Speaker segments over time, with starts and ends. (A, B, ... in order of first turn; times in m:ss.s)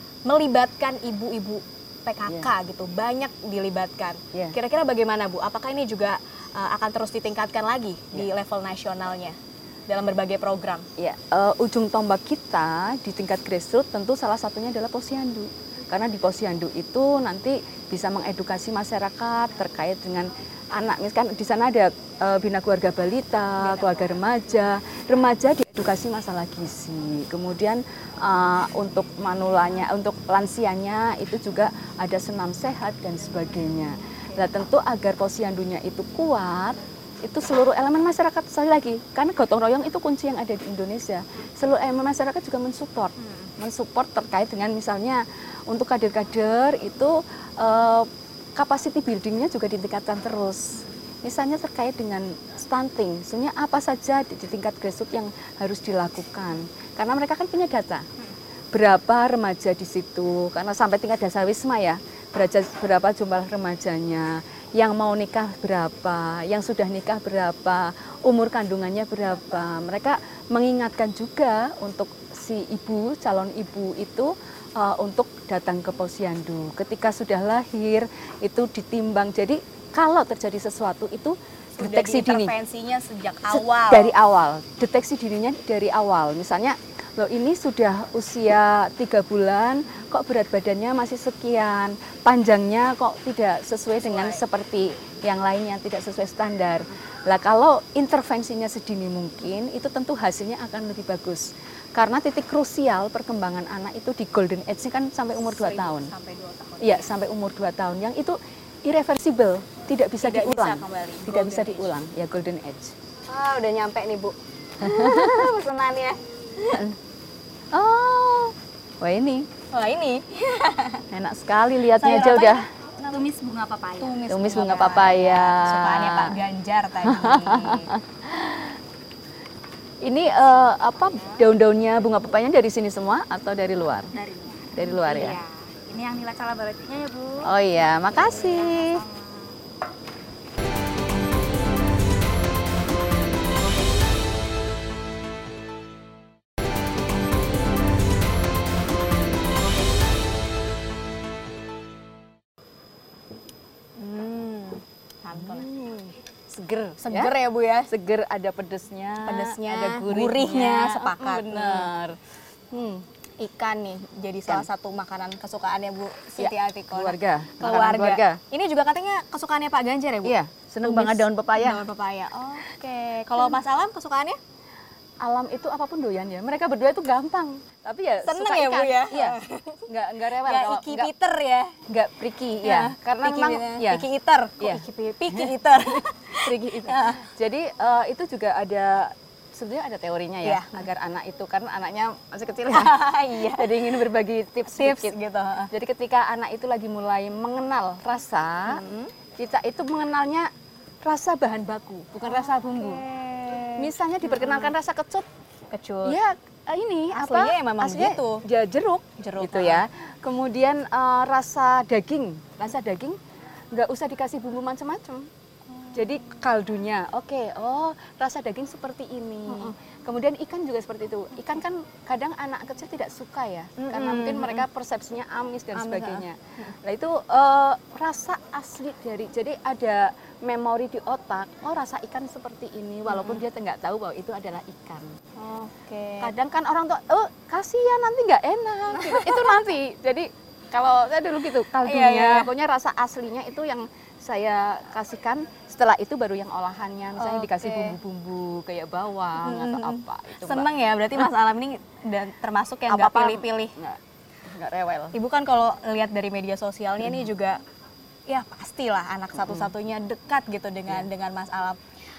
0:00.3-0:09.4 A
0:09.9-0:10.9 A
0:11.0-0:58.1 B
0:23.6-0:24.2 A
0:58.7-1:22.5 B
1:21.8-1:24.1 A
1:23.5-1:46.1 B
1:34.0-1:34.4 A
1:45.4-1:47.1 A
1:46.8-1:53.0 B
1:50.2-1:51.9 A
1:53.3-1:56.9 A
1:54.8-1:55.6 B
1:57.7-1:59.5 B
1:59.7-2:01.0 A
2:01.1-2:02.7 B
2:01.9-2:03.2 A
2:03.0-2:04.2 C
2:04.0-2:07.9 A
2:04.3-2:06.3 B
2:07.0-2:08.8 B
2:10.0-2:14.1 B
2:14.2-2:19.5 C
2:14.7-2:15.4 B
2:15.0-2:15.4 A
2:17.4-2:19.0 B
2:34.0-2:35.7 A
2:35.3-2:37.3 B
2:37.0-2:37.9 A
2:37.9-2:42.2 B
2:39.2-2:41.9 A
2:42.7-2:43.0 B
2:43.4-2:54.4 A
2:46.4-2:48.4 B
2:50.2-2:51.8 B
2:55.2-3:01.1 B
2:58.2-2:59.8 A
3:00.4-3:01.8 A
3:01.9-3:04.1 B
3:02.6-3:07.3 A
3:04.6-3:15.2 B
3:10.4-3:10.9 A
3:12.7-3:14.0 A
3:14.7-3:15.7 A
3:15.7-3:18.8 B
3:18.7-3:19.1 A
3:19.4-3:20.5 B
3:21.0-3:23.0 B
3:22.2-3:24.7 A
3:23.7-3:25.3 B
3:25.7-3:26.2 A
3:26.0-3:33.2 B
3:27.1-3:28.4 A
3:29.2-3:29.8 A
3:33.7-3:35.3 B
3:35.8-3:36.4 A
3:35.9-3:55.2 B
3:39.5-3:39.8 A
3:43.8-3:44.6 A
3:45.8-3:46.7 A
3:53.1-3:53.4 A
3:55.4-3:56.3 A
3:56.2-4:10.7 B
3:59.0-3:59.5 A
4:01.8-4:02.5 A
4:07.2-4:08.0 A
4:09.4-4:13.8 A
4:12.9-4:15.2 B
4:15.1-4:17.6 A
4:18.3-4:21.8 A
4:19.4-4:19.7 B